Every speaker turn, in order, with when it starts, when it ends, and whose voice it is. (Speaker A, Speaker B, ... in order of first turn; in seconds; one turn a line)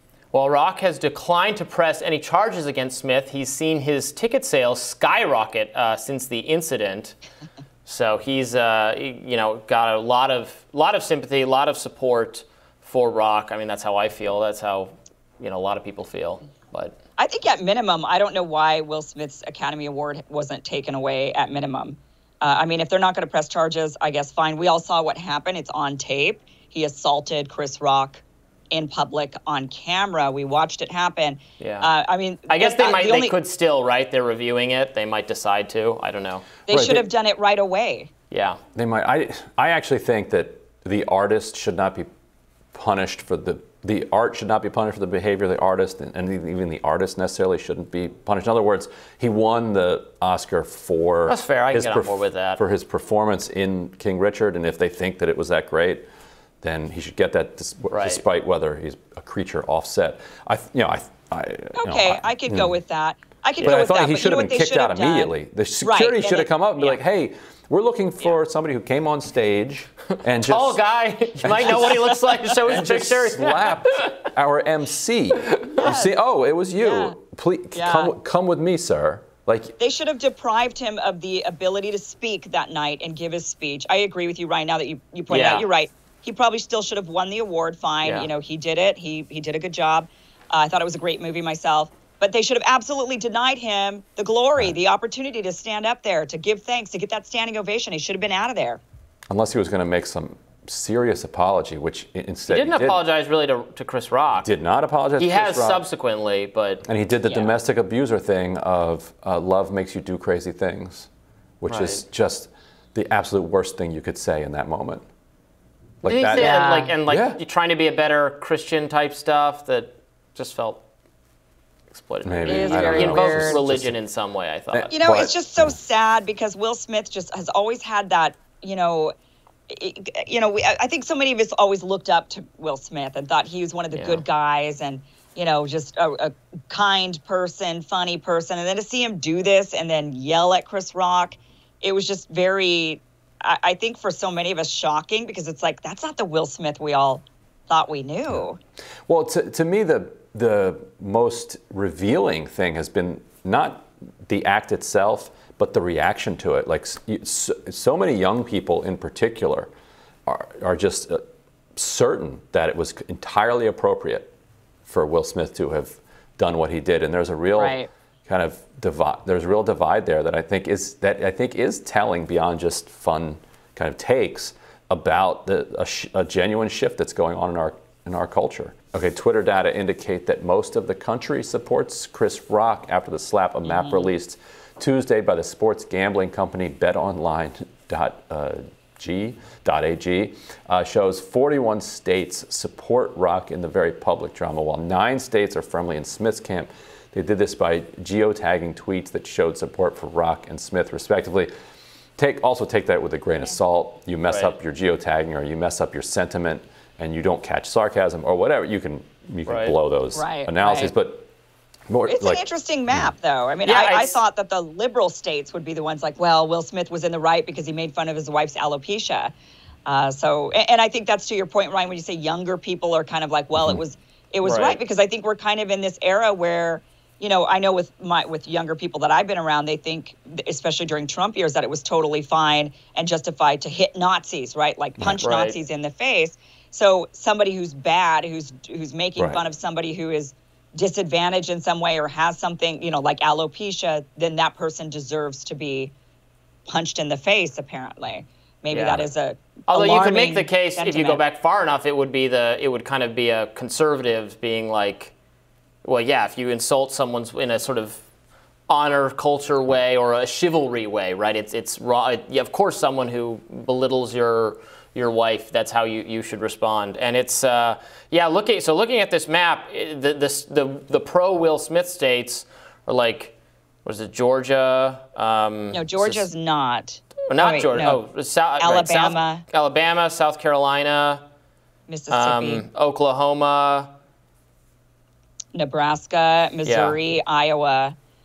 Speaker A: 0.3-7.2
Speaker A: 7.8-16.9
Speaker B: 17.2-33.4
Speaker A: 31.6-31.9
Speaker A: 32.5-36.5
Speaker B: 36.7-38.1
Speaker C: 36.7-37.1
Speaker A: 38.3-38.6
Speaker C: 38.7-42.1
Speaker C: 42.7-56.0
Speaker A: 51.3-52.6
Speaker C: 56.6-62.7
Speaker A: 57.9-58.2
Speaker B: 61.7-67.0
Speaker C: 63.6-70.8
Speaker A: 70.3-74.3
Speaker C: 71.4-72.1
Speaker C: 72.7-79.8
Speaker B: 75.8-76.1
Speaker B: 76.8-77.2
Speaker B: 77.7-78.1
Speaker B: 79.8-98.8
Speaker A: 85.3-85.7
Speaker A: 88.0-88.3
Speaker C: 99.3-103.0
Speaker A: 102.5-104.5
Speaker C: 104.3-105.8
Speaker A: 105.2-106.8
Speaker C: 106.8-111.1
Speaker C: 111.6-115.0
Speaker A: 111.7-112.0
Speaker C: 116.0-117.4
Speaker A: 116.0-120.8
Speaker B: 116.3-117.0
Speaker A: 121.9-124.9
Speaker C: 122.2-123.9
Speaker B: 122.5-123.6
Speaker C: 124.7-125.8
Speaker B: 124.9-129.1
Speaker B: 129.7-148.6
Speaker A: 133.9-134.2
Speaker C: 149.1-159.7
Speaker C: 160.2-161.2
Speaker C: 161.8-164.3
Speaker C: 164.9-201.5
Speaker B: 167.6-167.9
Speaker B: 183.7-184.1
Speaker C: 202.2-211.3
Speaker A: 204.3-204.6
Speaker A: 209.5-209.7
Speaker B: 210.1-210.9
Speaker C: 211.9-213.1
Speaker B: 212.1-219.3
Speaker A: 213.6-214.2
Speaker B: 219.9-245.9
Speaker A: 224.4-224.8
Speaker C: 235.0-235.2
Speaker A: 235.2-235.6
Speaker C: 239.2-239.4
Speaker B: 246.7-251.2
Speaker A: 248.7-249.1
Speaker A: 249.7-255.1
Speaker A: 255.8-258.0
Speaker A: 258.7-273.3
Speaker A: 273.8-276.3
Speaker B: 275.7-278.0
Speaker A: 277.3-281.2
Speaker B: 278.6-279.4
Speaker B: 281.9-282.6
Speaker A: 282.1-283.9
Speaker B: 285.5-287.9
Speaker A: 286.6-287.0